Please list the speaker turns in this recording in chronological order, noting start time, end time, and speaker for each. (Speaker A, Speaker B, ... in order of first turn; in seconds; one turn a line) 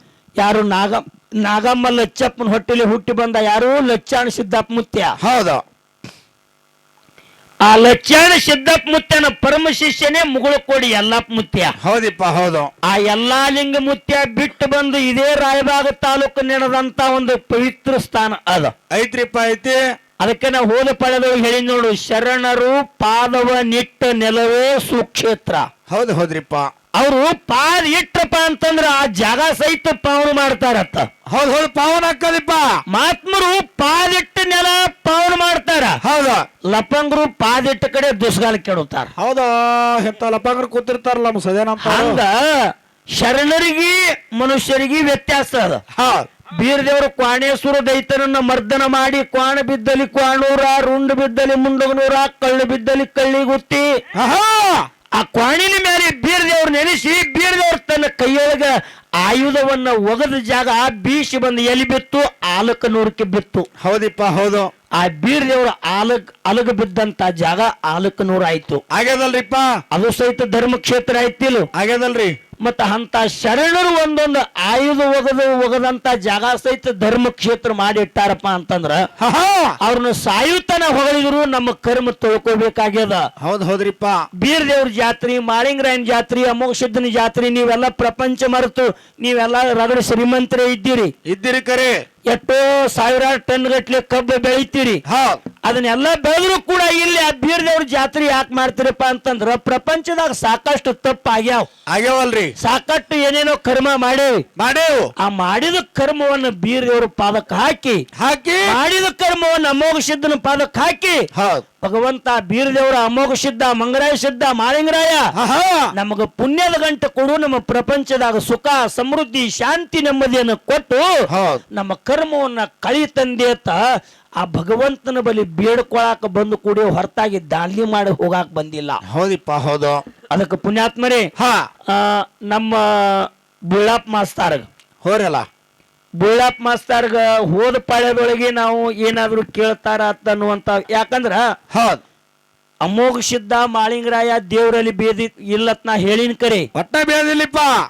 Speaker A: 0.4-5.1
Speaker B: 5.2-5.6
Speaker A: 7.6-11.7
Speaker B: 11.8-12.7
Speaker A: 12.9-18.7
Speaker B: 18.9-19.8
Speaker A: 20.2-25.6
Speaker B: 25.9-26.7
Speaker A: 27.0-31.1
Speaker B: 31.3-32.7
Speaker A: 32.9-36.0
Speaker B: 36.0-36.5
Speaker A: 36.7-39.1
Speaker B: 39.2-42.2
Speaker A: 41.8-45.8
Speaker B: 46.0-46.2
Speaker A: 46.5-53.9
Speaker B: 54.1-54.9
Speaker A: 55.2-63.7
Speaker B: 63.8-64.7
Speaker A: 65.0-68.8
Speaker B: 68.9-69.7
Speaker A: 69.9-71.7
Speaker B: 71.8-72.3
Speaker A: 72.6-79.0
Speaker B: 79.2-79.7
Speaker A: 79.8-83.2
Speaker B: 83.4-84.2
Speaker A: 84.4-91.1
Speaker B: 91.2-92.0
Speaker A: 92.3-95.0
Speaker B: 95.1-95.4
Speaker A: 95.6-101.7
Speaker B: 101.9-102.5
Speaker A: 102.6-104.4
Speaker B: 104.6-105.1
Speaker A: 105.2-108.0
Speaker B: 108.2-108.7
Speaker A: 108.6-111.2
Speaker B: 111.3-111.6
Speaker A: 111.8-115.3
Speaker B: 115.4-115.9
Speaker A: 115.9-121.1
Speaker B: 121.3-121.6
Speaker A: 121.7-123.8
Speaker A: 124.4-129.0
Speaker B: 129.0-130.0
Speaker A: 130.3-131.3
Speaker B: 131.3-131.7
Speaker A: 131.9-134.7
Speaker B: 135.0-135.4
Speaker A: 136.2-141.4
Speaker B: 141.7-142.0
Speaker A: 142.8-146.7
Speaker B: 146.7-147.8